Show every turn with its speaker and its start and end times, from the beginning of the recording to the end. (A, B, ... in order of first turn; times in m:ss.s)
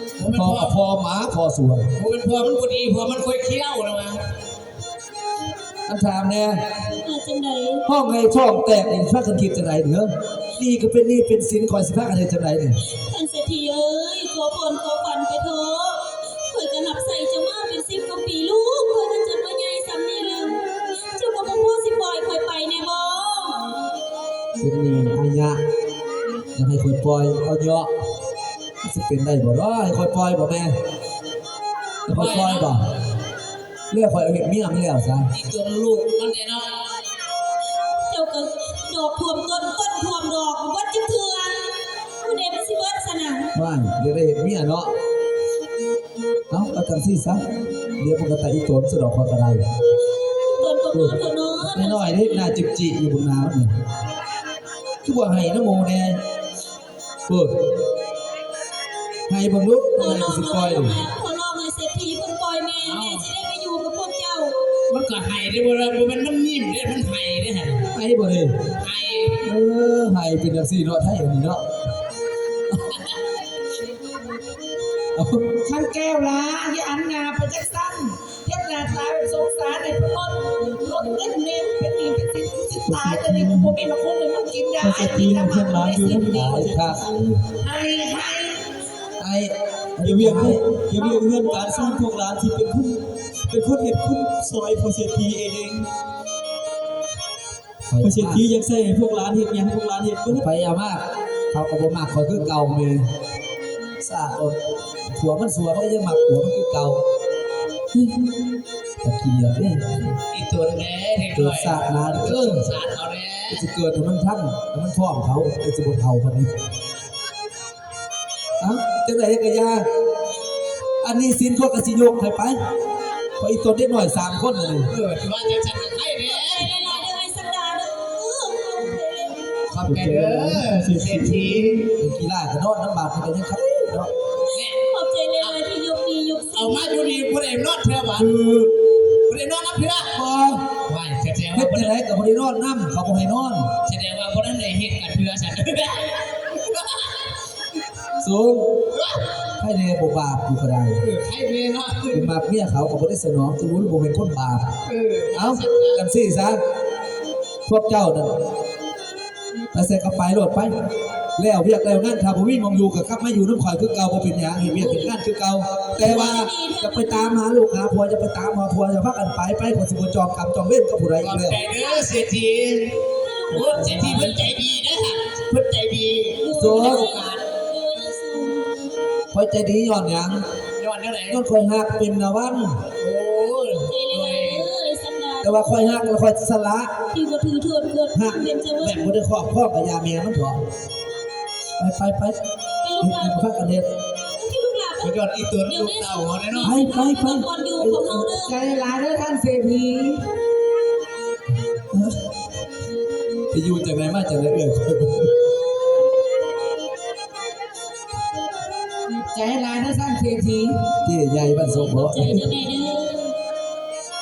0:00.2-0:00.8 A
0:00.3-0:01.9 B
0:02.0-0:04.2 A
0:05.9-0:06.6 B
0:07.0-0:07.9 C
0:07.9-0:12.8 B
0:13.0-0:23.7 C
0:24.6-0:25.6 B
0:26.6-0:27.9 B
0:28.8-0:30.7 B
0:32.1-0:32.8 B
0:32.1-0:32.8 A
0:33.9-0:35.3 B
0:35.3-0:36.7 A
0:38.1-0:43.5 C
0:43.5-0:44.9 B
0:46.5-0:47.4 B
0:48.0-0:49.6 B
0:50.5-0:52.5 C
0:50.9-0:53.7 B
0:55.0-0:56.2 B
0:57.3-0:57.5 B
0:59.3-1:01.0 B
1:00.0-1:04.6 C
1:02.8-1:03.3 A
1:04.9-1:07.9 A
1:07.9-1:08.6 B
1:08.8-1:09.4 A
1:09.4-1:11.6 B
1:12.9-1:13.2 A
1:15.2-1:15.4 B
1:15.6-1:26.4 D
1:22.9-1:23.8 E
1:24.8-1:27.2 E
1:26.0-1:27.4 B
1:27.6-1:28.6 D
1:29.2-1:30.6 B
1:30.0-1:35.9 E
1:31.0-1:32.0 D
1:37.9-1:38.4 B
1:38.0-1:40.5 E
1:40.3-1:43.1 B
1:44.0-1:47.0 B
1:49.0-1:50.2 B
1:50.3-1:53.7 A
1:51.4-1:52.7 B
1:53.5-1:56.5 B
1:58.6-1:59.9 B
2:01.0-2:02.6 B
2:03.4-2:04.9 B
2:04.9-2:07.1 A
2:06.3-2:09.7 C
2:09.7-2:11.9 A
2:09.8-2:11.8 E
2:12.0-2:14.1 B
2:14.5-2:14.8 A
2:14.9-2:17.0 C
2:16.5-2:18.7 A
2:18.3-2:18.6 B
2:19.3-2:20.1 A
2:20.2-2:20.6 B
2:20.9-2:21.9 A
2:21.5-2:23.7 B
2:23.8-2:27.3 A
2:28.2-2:28.7 B
2:28.9-2:29.2 A
2:29.6-2:31.0 B
2:31.0-2:32.3 A
2:32.1-2:34.7 B
2:34.8-2:36.0 A
2:35.3-2:36.6 B
2:37.7-2:38.3 B
2:39.7-2:40.7 B
2:41.4-2:51.6 B
2:44.8-2:45.2 A
2:46.0-2:47.3 C
2:51.2-2:52.9 A
2:51.6-2:52.2 C
2:53.2-2:54.4 C
2:53.5-2:57.4 A
2:53.5-2:54.5 B
2:56.4-2:58.8 C
2:56.5-2:57.1 B
2:59.3-3:00.4 B
3:00.8-3:01.4 A
3:01.3-3:02.8 B
3:03.0-3:04.7 A
3:03.9-3:06.1 C
3:05.4-3:06.9 B
3:07.1-3:09.1 C
3:08.1-3:10.6 B
3:11.8-3:12.4 B
3:12.8-3:13.4 C
3:13.0-3:13.9 B
3:14.4-3:18.5 C
3:15.0-3:16.8 A
3:16.6-3:18.0 B
3:18.1-3:20.3 D
3:23.5-3:25.3 B
3:29.3-3:30.8 D
3:31.0-3:32.5 B
3:31.6-3:33.4 C